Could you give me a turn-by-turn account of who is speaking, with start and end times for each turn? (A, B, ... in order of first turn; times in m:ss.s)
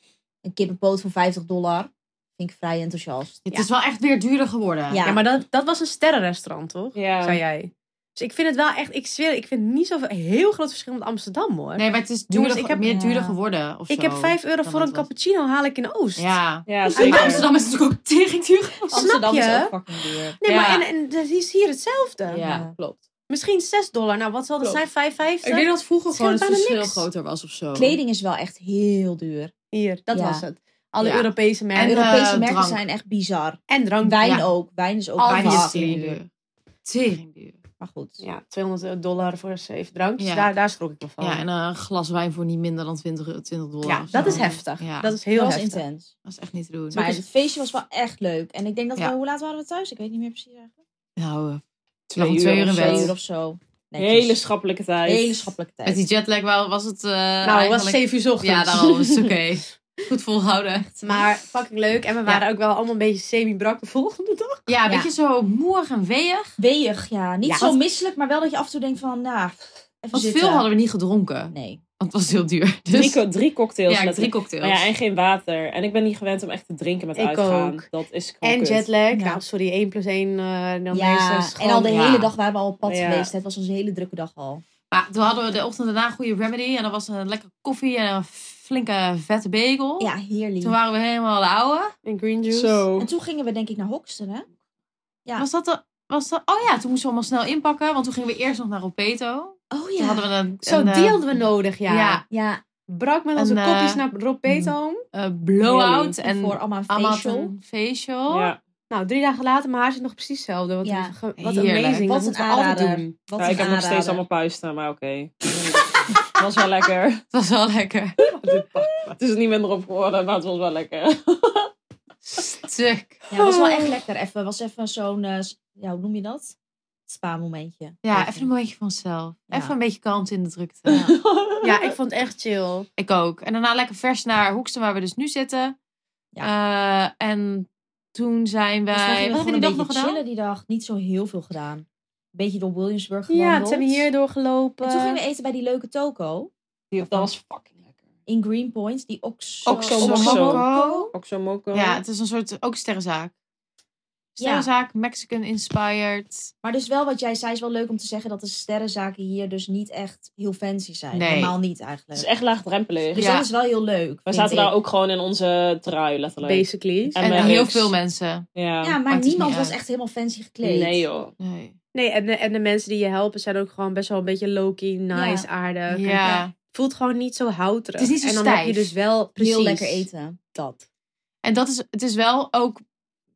0:00.4-0:03.4 A
0:03.5-0:05.1 B
0:04.9-0:05.2 A
0:05.0-0:12.9 C
0:07.0-0:07.4 D
0:11.8-0:15.1 B
0:12.8-0:13.4 A
0:13.9-0:16.3 C
0:16.2-0:19.0 B
0:16.7-0:17.5 D
0:16.9-0:17.4 C
0:18.9-0:20.4 A
0:18.9-0:19.7 C
0:20.4-0:22.4 C
0:20.4-0:20.9 B
0:22.3-0:23.0 B
0:22.4-0:22.7 A
0:23.3-0:27.1 C
0:25.4-0:28.0 B
0:27.8-0:29.5 A
0:29.7-0:32.2 C
0:30.1-0:30.4 A
0:31.0-0:32.8 B
0:31.8-0:36.2 A
0:33.7-0:34.4 C
0:35.2-0:36.1 C
0:35.3-0:36.3 B
0:36.8-0:37.6 B
0:37.8-0:38.2 A
0:38.2-0:41.5 C
0:40.2-0:40.5 B
0:41.2-0:45.2 B
0:43.8-0:45.8 C
0:44.2-0:44.5 A
0:45.3-0:46.1 A
0:46.3-0:47.2 B
0:46.9-0:50.7 A
0:51.2-0:51.6 B
0:52.1-0:53.1 D
0:52.2-0:53.2 B
0:52.7-0:54.4 A
0:54.0-0:55.5 D
0:55.0-0:56.0 A
0:55.8-1:00.9 B
0:57.4-0:59.1 C
1:01.0-1:04.7 C
1:04.7-1:06.6 B
1:06.6-1:10.7 A
1:07.4-1:07.8 C
1:10.1-1:13.2 B
1:11.5-1:11.8 A
1:12.9-1:18.9 D
1:13.9-1:14.9 B
1:17.2-1:17.8 C
1:18.4-1:22.0 C
1:19.1-1:19.4 A
1:20.9-1:24.6 A
1:21.9-1:22.3 B
1:22.9-1:23.3 D
1:24.9-1:31.9 B
1:30.0-1:30.8 A
1:32.0-1:32.8 C
1:32.5-1:33.1 D
1:33.0-1:34.5 A
1:35.4-1:42.2 B
1:39.7-1:40.3 A
1:40.6-1:42.2 C
1:42.3-1:42.6 A
1:42.9-1:45.0 C
1:43.4-1:48.5 B
1:46.2-1:47.5 A
1:48.3-1:48.6 D
1:48.9-1:53.1 C
1:50.8-1:51.1 A
1:51.4-1:52.1 B
1:52.0-1:54.2 A
1:53.4-1:57.2 D
1:57.3-1:58.2 B
1:58.2-2:01.7 D
2:02.3-2:03.2 B
2:03.3-2:06.6 A
2:03.4-2:04.0 D
2:07.1-2:08.5 A
2:08.0-2:11.0 B
2:10.9-2:11.2 A
2:10.9-2:12.0 D
2:11.6-2:12.9 C
2:13.0-2:15.8 B
2:16.4-2:20.2 B
2:18.9-2:24.1 A
2:23.3-2:25.2 C
2:24.8-2:26.5 A
2:26.9-2:27.7 D
2:28.3-2:31.1 A
2:29.6-2:32.0 D
2:29.7-2:31.1 B
2:31.7-2:33.3 B
2:34.4-2:36.5 B
2:34.4-2:34.7 A
2:36.6-2:42.3 A
2:41.1-2:41.6 B
2:42.2-2:43.3 D
2:43.2-2:44.7 A
2:43.2-2:43.5 B
2:44.3-2:47.9 D
2:46.4-2:47.6 C
2:47.2-2:48.4 B
2:48.6-2:49.0 D
2:48.8-2:51.0 A
2:49.1-2:49.8 B
2:50.6-2:51.3 D
2:51.4-2:51.7 B
2:51.9-3:00.8 C
2:55.1-2:55.5 A
2:55.9-2:56.5 B
2:58.0-2:58.9 B
2:59.4-3:00.4 A
3:01.4-3:02.8 B